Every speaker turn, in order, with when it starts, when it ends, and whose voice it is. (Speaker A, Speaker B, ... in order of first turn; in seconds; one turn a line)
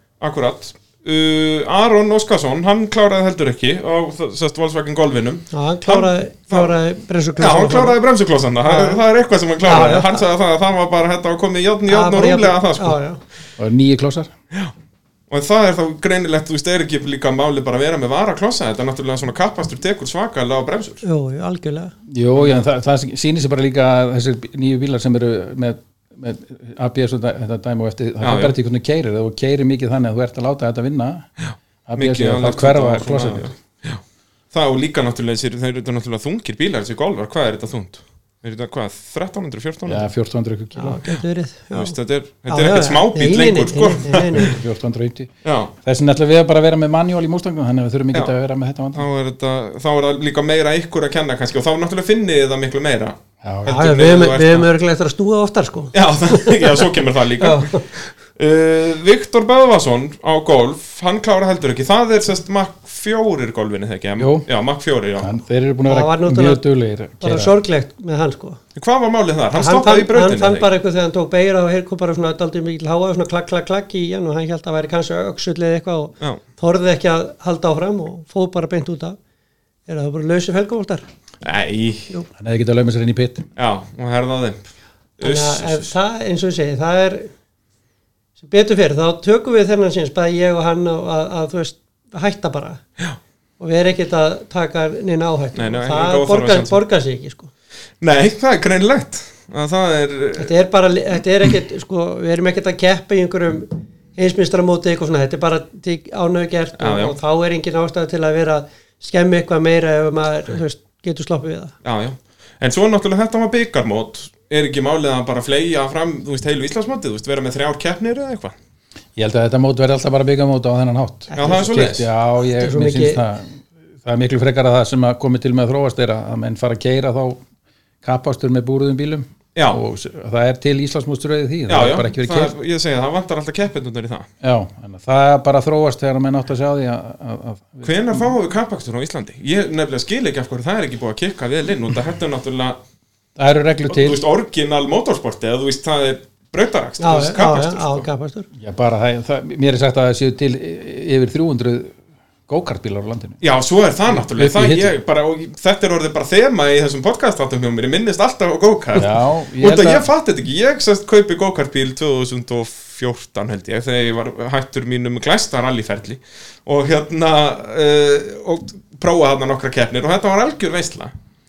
Speaker A: 0.2-6.8
Speaker B: 5.5-8.0
Speaker A: 7.4-13.0
Speaker B: 8.6-9.0
Speaker B: 9.6-10.2
Speaker B: 11.9-13.2
Speaker C: 13.6-14.3
Speaker A: 15.3-21.0
Speaker B: 21.0-21.9
Speaker C: 22.1-31.3
Speaker A: 22.4-22.6
Speaker A: 28.2-28.6
Speaker A: 31.4-34.0
Speaker C: 31.9-33.5
Speaker A: 34.5-40.0
Speaker C: 39.9-41.0
Speaker B: 40.8-42.0
Speaker A: 41.7-44.6
Speaker B: 42.5-44.6
Speaker C: 44.4-45.3
Speaker A: 45.4-45.7
Speaker C: 45.8-49.0
Speaker A: 49.0-54.7
Speaker C: 53.4-53.8
Speaker B: 53.7-56.9
Speaker A: 55.9-57.8
Speaker B: 57.4-57.9
Speaker A: 58.4-65.3
Speaker C: 64.2-64.5
Speaker C: 65.2-67.5
Speaker B: 65.9-66.6
Speaker B: 67.2-68.6
Speaker A: 68.8-70.7
Speaker B: 69.5-79.2
Speaker B: 79.9-81.0
Speaker A: 81.4-82.1
Speaker C: 82.4-83.5
Speaker A: 83.6-84.6
Speaker A: 85.2-85.9
Speaker B: 85.2-87.3
Speaker B: 88.4-92.8
Speaker B: 93.6-97.5
Speaker A: 95.5-96.8
Speaker A: 98.0-100.5
Speaker B: 100.4-111.8
Speaker A: 106.8-107.2
Speaker A: 111.8-118.5
Speaker C: 119.2-127.4
Speaker B: 121.3-121.7
Speaker A: 121.4-122.1
Speaker B: 122.6-123.2
Speaker C: 128.0-132.6
Speaker A: 129.6-129.8
Speaker A: 131.7-134.3
Speaker C: 134.4-138.3
Speaker A: 137.8-142.8
Speaker C: 143.4-144.2
Speaker A: 143.9-148.1
Speaker B: 147.0-148.5
Speaker C: 148.6-152.0
Speaker C: 152.5-153.4
Speaker A: 153.4-171.1
Speaker C: 154.1-154.9
Speaker C: 158.9-160.1